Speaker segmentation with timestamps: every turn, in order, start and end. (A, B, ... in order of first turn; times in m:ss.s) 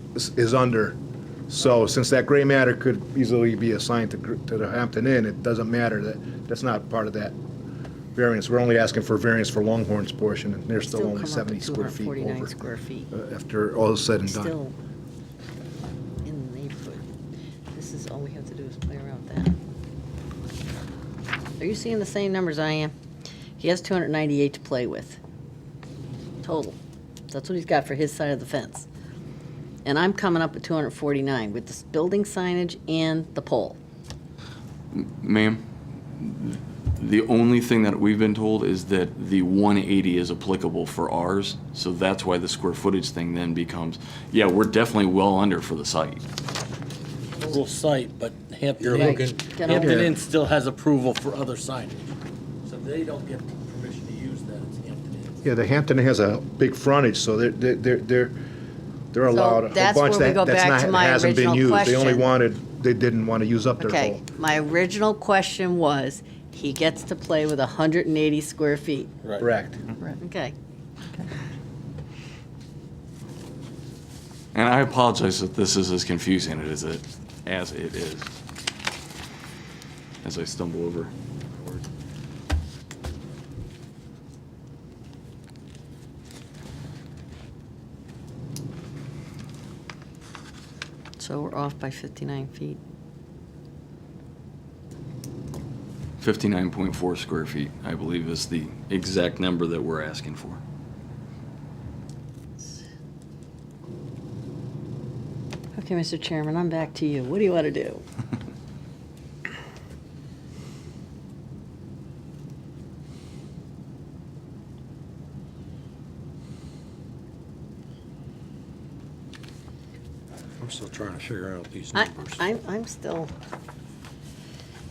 0:00.2-0:01.0 A
0:01.5-0:07.4 A
0:08.2-0:12.5 A
0:10.8-0:13.1 B
0:13.1-0:14.6 A
0:14.3-0:14.8 B
0:16.2-0:17.1 B
0:17.7-0:19.6 B
0:21.6-0:22.9 B
0:23.6-0:25.2 B
0:26.4-0:26.8 B
0:27.3-0:28.9 B
0:29.8-0:33.8 B
0:34.9-0:46.2 C
0:47.4-0:52.1 D
0:48.8-0:50.1 E
0:49.0-0:50.1 B
0:52.7-0:55.4 D
0:55.4-0:58.4 A
0:59.1-1:04.2 A
0:59.3-1:02.2 B
1:03.8-1:09.1 B
1:09.4-1:09.8 A
1:10.2-1:10.6 B
1:14.6-1:18.3 C
1:20.2-1:21.1 C
1:31.2-1:32.8 B
1:36.2-1:40.6 C
1:45.8-1:48.0 B
2:00.6-2:02.4 E
2:02.0-2:03.3 B